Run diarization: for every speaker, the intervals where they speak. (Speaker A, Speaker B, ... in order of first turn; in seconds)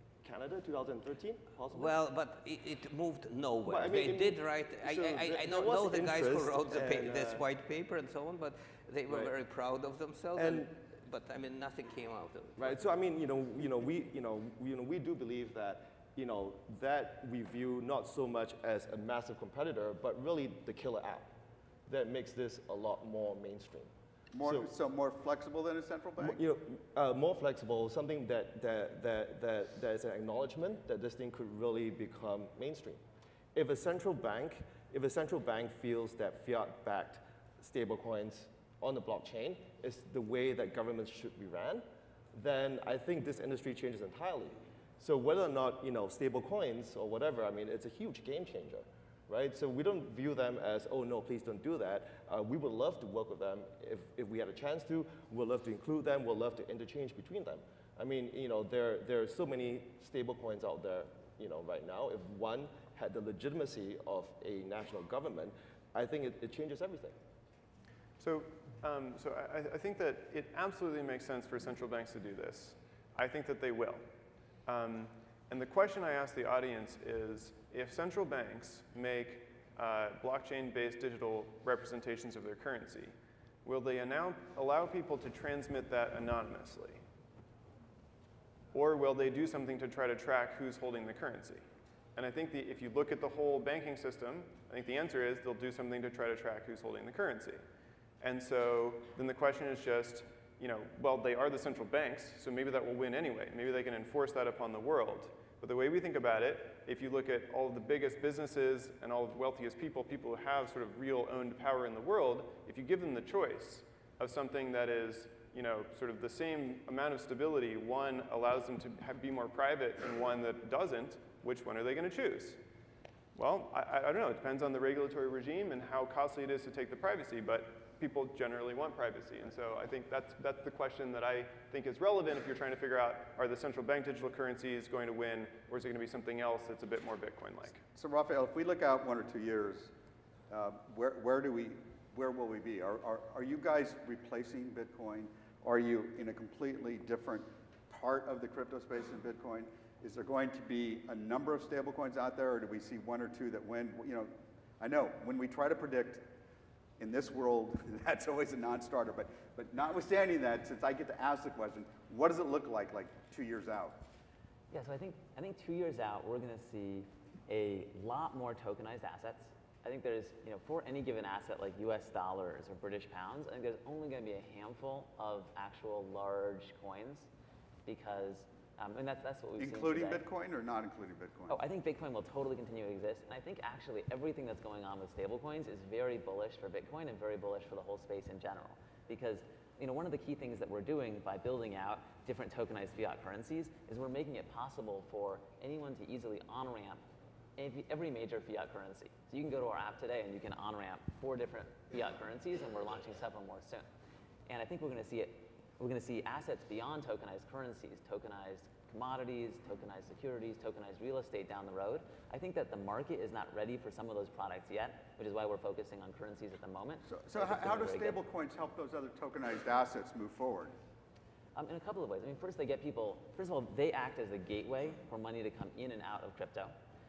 Speaker A: 0.2-1.9, 3.7-7.4, 10.3-10.7, 12.6-21.3, 21.9-23.9, 24.4-24.7, 26.2-33.0, 33.5-67.2
Speaker B: 1.7-12.8
Speaker C: 24.3-26.4, 137.9-139.9, 140.5-156.3, 157.0-164.0, 179.6-181.6, 217.1-220.7
Speaker D: 68.2-74.0, 74.7-87.0, 88.7-91.6, 92.2-97.6, 98.2-122.6, 123.3-137.8
Speaker E: 164.7-177.3, 177.9-180.2, 181.5-197.0, 197.6-203.9, 204.5-218.2, 221.6-226.8